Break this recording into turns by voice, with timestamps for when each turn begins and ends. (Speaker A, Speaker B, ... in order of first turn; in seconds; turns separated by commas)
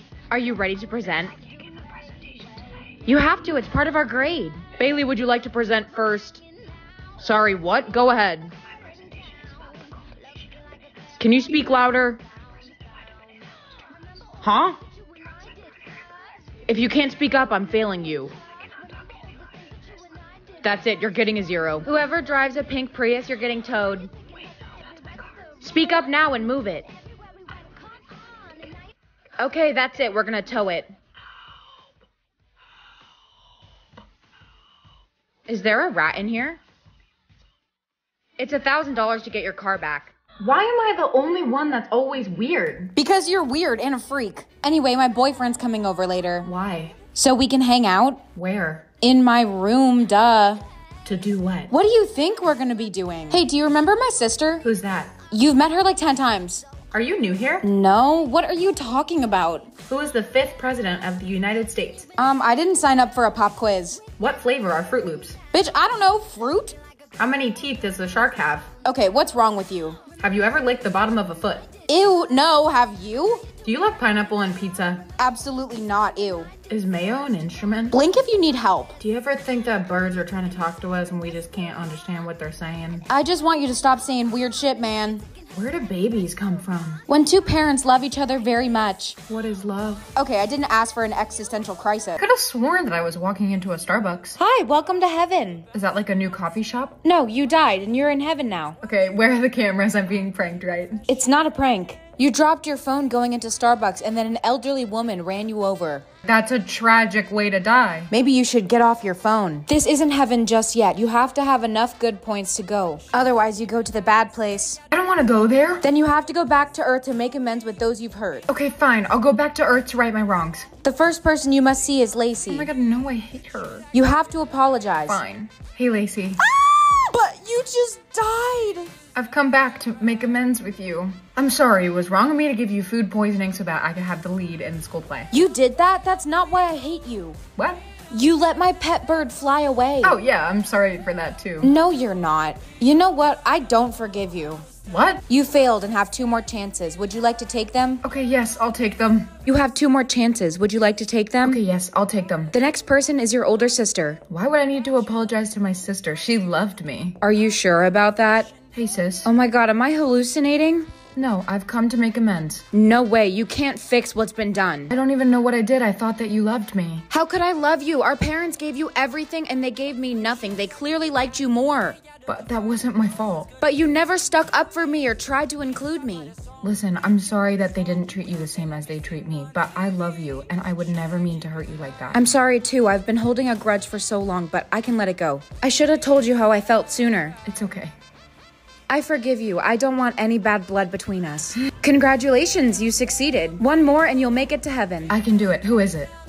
Speaker A: 0.3-1.3, Speaker A: 3.0-6.4, Speaker A: 7.2-8.5, Speaker A: 11.2-12.2, Speaker A: 14.4-14.8, Speaker A: 16.7-18.3, Speaker B: 18.7-19.3, Speaker A: 20.6-24.1, Speaker B: 24.9-25.2, Speaker A: 25.6-26.9, Speaker A: 29.4-30.9, Speaker A: 35.5-36.6, Speaker A: 38.4-40.1, Speaker B: 40.4-42.9, Speaker A: 43.0-46.5, Speaker B: 46.4-47.0, Speaker A: 47.1-48.2, Speaker B: 48.3-48.9, Speaker A: 49.0-50.6, Speaker B: 51.0-51.7, Speaker A: 51.7-54.6, Speaker B: 54.6-55.1, Speaker A: 55.3-56.6, Speaker B: 56.9-57.6, Speaker A: 57.6-59.7, Speaker B: 59.9-62.1, Speaker A: 62.2-64.0, Speaker B: 64.2-65.4, Speaker A: 65.5-66.8, Speaker B: 67.2-68.7, Speaker A: 68.8-70.0, Speaker B: 70.2-71.7, Speaker A: 71.9-73.5, Speaker B: 73.6-75.1, Speaker A: 75.2-76.5, Speaker B: 76.7-78.0, Speaker A: 77.9-79.0, Speaker B: 79.0-83.0, Speaker A: 83.1-85.2, Speaker B: 85.5-87.0, Speaker A: 87.1-89.2, Speaker B: 89.3-90.1, Speaker A: 90.2-92.2, Speaker B: 92.2-94.4, Speaker A: 94.4-95.7, Speaker B: 95.7-97.0, Speaker A: 97.0-98.8, Speaker B: 98.8-101.0, Speaker A: 101.1-106.0, Speaker B: 106.2-108.1, Speaker A: 108.1-114.8, Speaker B: 114.9-115.9, Speaker A: 115.8-118.5, Speaker B: 118.5-120.7, Speaker A: 120.8-122.7, Speaker B: 122.5-123.8, Speaker A: 123.9-125.2, Speaker B: 125.1-126.4, Speaker A: 126.4-128.9, Speaker B: 129.1-135.3, Speaker A: 135.3-137.4, Speaker B: 137.6-137.8, Speaker A: 138.1-140.2, Speaker B: 140.0-141.7, Speaker A: 141.6-144.7, Speaker B: 144.9-145.2, Speaker A: 145.3-148.0, Speaker B: 148.0-149.3, Speaker A: 149.4-151.6, Speaker B: 151.4-152.5, Speaker A: 152.5-154.2, Speaker B: 154.3-157.2, Speaker A: 157.2-158.5, Speaker B: 158.7-159.3, Speaker A: 159.2-160.9, Speaker B: 161.2-162.6, Speaker A: 162.7-164.9, Speaker B: 164.9-167.1, Speaker A: 167.1-172.0, Speaker B: 172.3-173.5, Speaker A: 173.6-176.3, Speaker B: 176.6-182.2, Speaker A: 182.1-187.4, Speaker B: 187.4-187.9, Speaker A: 188.9-195.2, Speaker B: 195.1-196.1